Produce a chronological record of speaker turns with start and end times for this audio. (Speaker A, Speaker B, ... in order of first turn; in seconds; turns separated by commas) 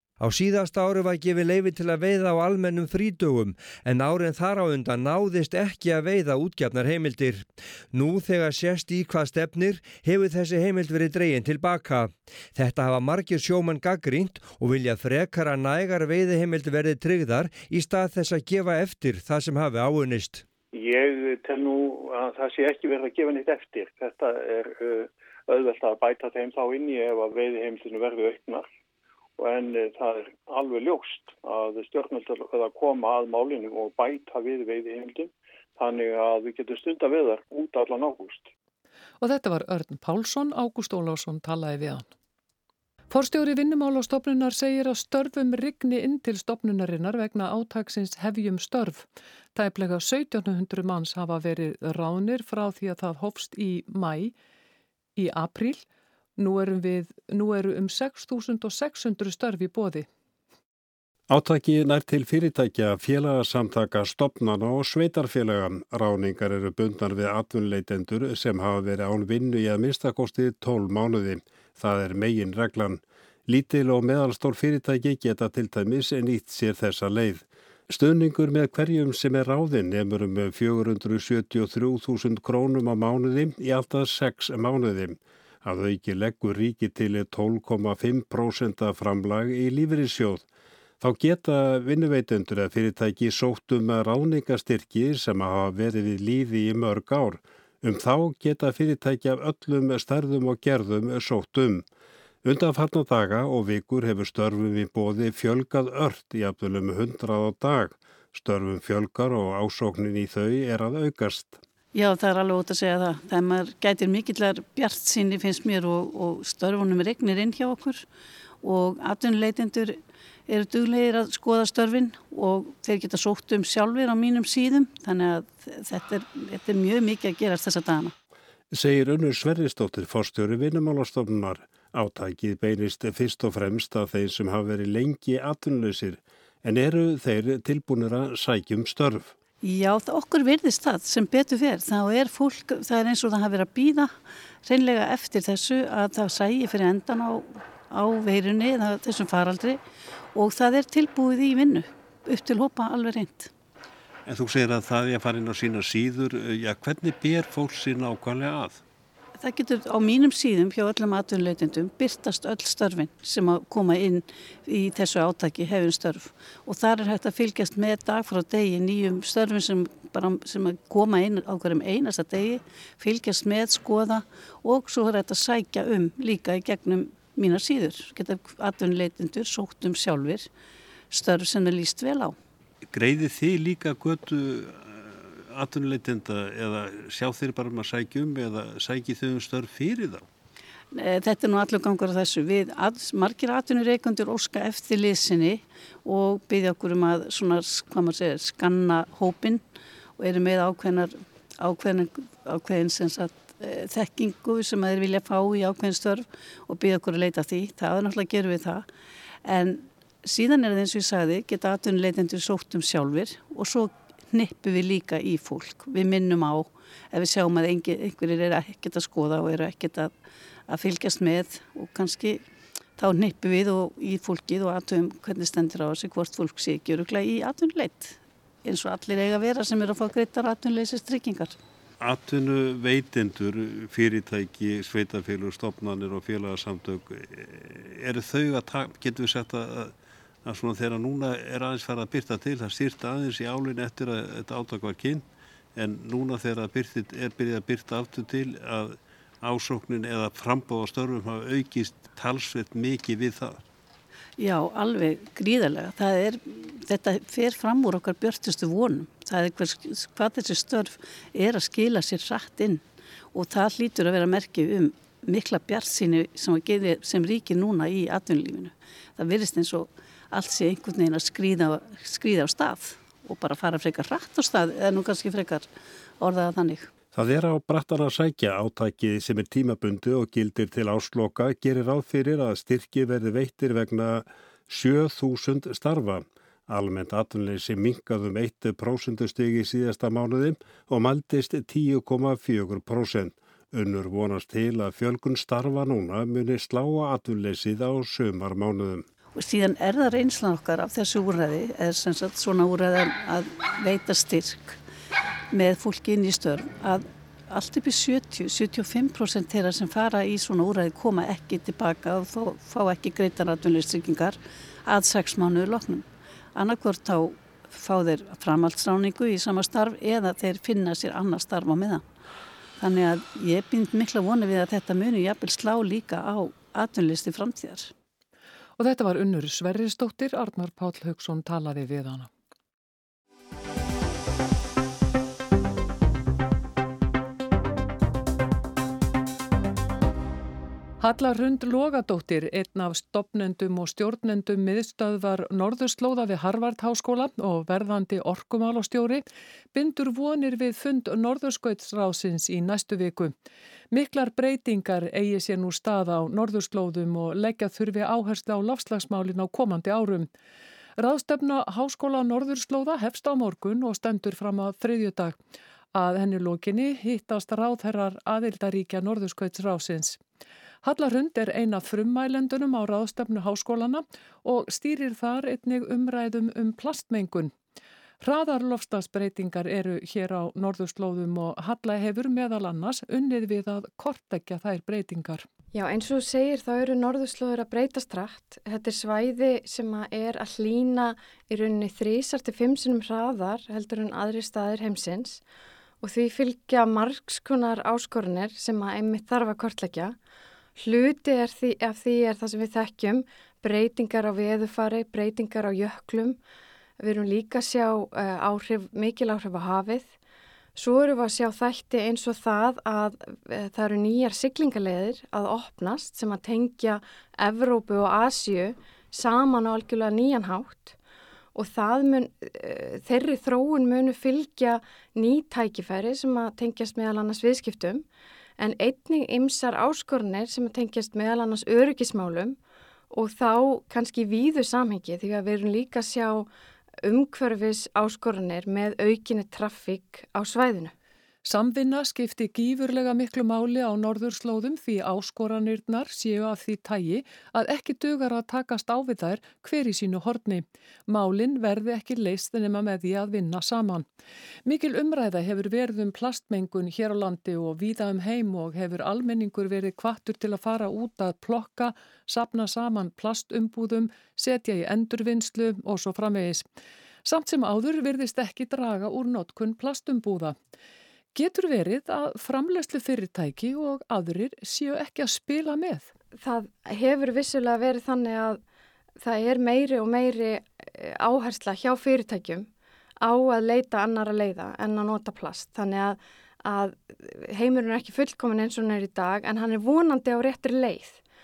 Speaker A: 0.2-20.4, Speaker B: 20.7-28.7, Speaker B: 29.4-38.5, Speaker C: 39.2-42.1, Speaker C: 43.1-54.3, Speaker C: 55.2-55.9, Speaker C: 56.4-60.1, Speaker D: 61.3-90.5, Speaker D: 91.0-101.9, Speaker D: 102.4-111.6, Speaker E: 111.9-118.0, Speaker E: 118.6-128.1, Speaker D: 128.7-139.3, Speaker E: 139.6-144.1, Speaker E: 144.7-149.8, Speaker E: 150.3-153.5, Speaker D: 154.3-158.8, Speaker E: 159.4-180.5, Speaker E: 181.1-182.3, Speaker D: 182.9-190.2, Speaker E: 190.9-199.7, Speaker E: 200.2-208.9, Speaker E: 209.5-220.1, Speaker E: 220.7-222.4, Speaker E: 223.0-231.6, Speaker D: 232.0-253.6, Speaker E: 254.4-262.8, Speaker E: 263.3-275.7, Speaker E: 276.2-276.9, Speaker D: 277.1-299.1, Speaker E: 299.4-304.8, Speaker E: 305.5-322.0, Speaker E: 322.8-327.9, Speaker C: 328.8-332.3, Speaker C: 341.0-353.3, Speaker C: 353.9-360.3, Speaker C: 361.0-365.4, Speaker C: 365.9-370.2, Speaker C: 370.8-377.5, Speaker C: 378.2-385.5, Speaker F: 385.7-395.4, Speaker F: 396.0-400.2, Speaker F: 400.8-406.4, Speaker F: 407.0-410.1, Speaker F: 410.8-421.0, Speaker F: 421.6-428.1, Speaker F: 428.6-432.6, Speaker F: 433.1-436.5, Speaker F: 437.0-440.9, Speaker C: 441.4-454.1, Speaker C: 454.7-466.6, Speaker C: 467.2-470.6, Speaker C: 471.4-476.1, Speaker F: 476.4-478.6, Speaker F: 479.2-482.7, Speaker F: 483.2-491.2